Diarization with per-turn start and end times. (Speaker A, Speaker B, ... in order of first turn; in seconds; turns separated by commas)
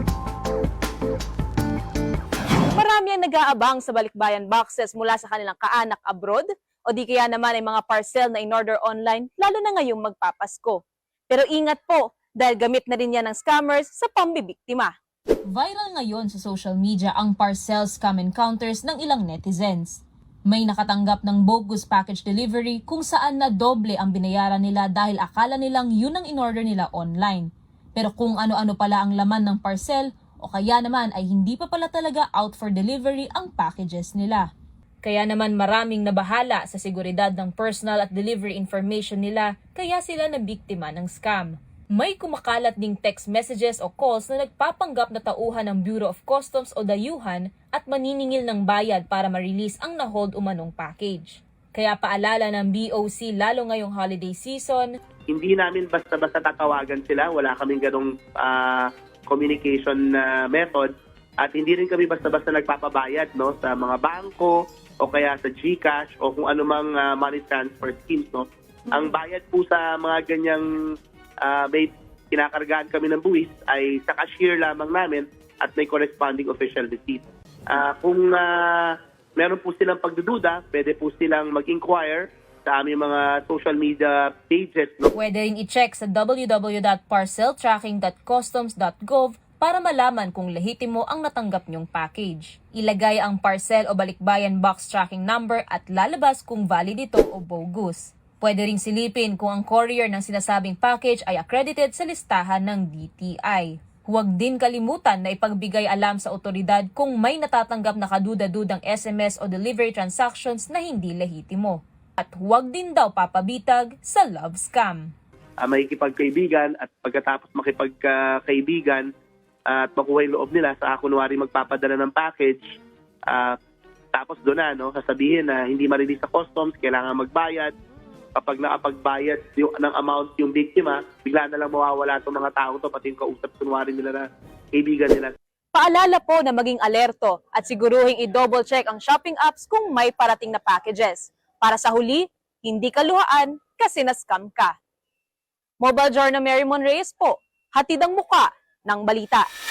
Speaker A: 2.7-14.9, Speaker B: 15.5-34.5, Speaker B: 35.0-54.9, Speaker C: 55.3-70.7, Speaker C: 71.4-78.8, Speaker C: 79.4-85.1, Speaker B: 85.1-115.1, Speaker C: 115.6-119.1, Speaker C: 119.7-122.6, Speaker C: 123.3-123.5, Speaker C: 124.1-127.7, Speaker C: 128.3-135.3, Speaker A: 135.7-144.8, Speaker A: 145.8-149.5